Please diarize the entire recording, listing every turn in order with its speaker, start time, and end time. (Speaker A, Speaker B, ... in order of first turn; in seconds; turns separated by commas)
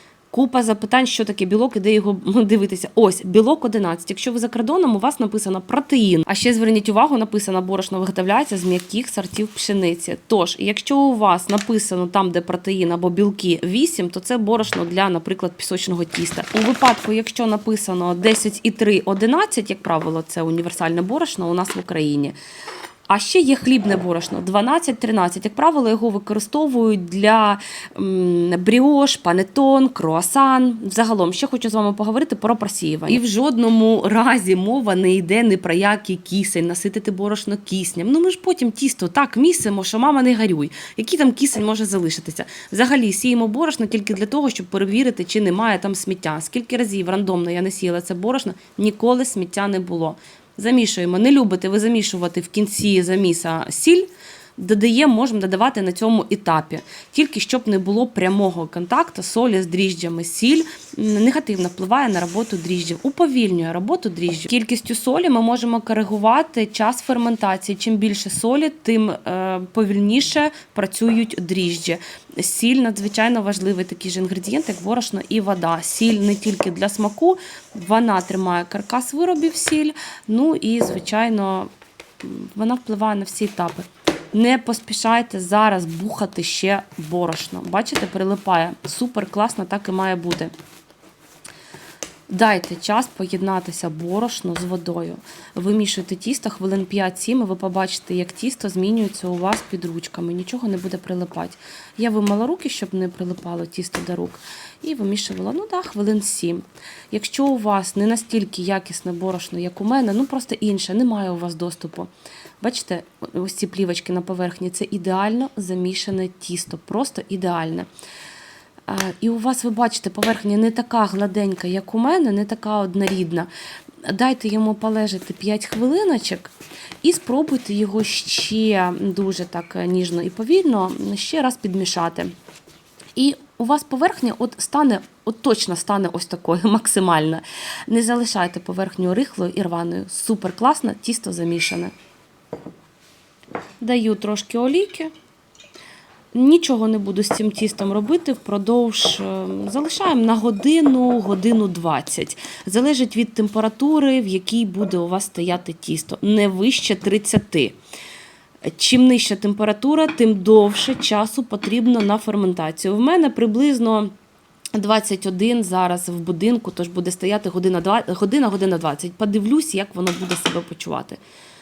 Speaker A: 0.3-22.4, Speaker A: 23.1-81.7, Speaker A: 82.2-90.5, Speaker A: 92.3-112.1, Speaker A: 112.6-117.9, Speaker A: 118.9-123.5, Speaker A: 124.0-132.3, Speaker A: 133.2-141.9, Speaker A: 143.8-145.1, Speaker A: 146.3-157.8, Speaker A: 158.6-164.1, Speaker A: 164.7-171.2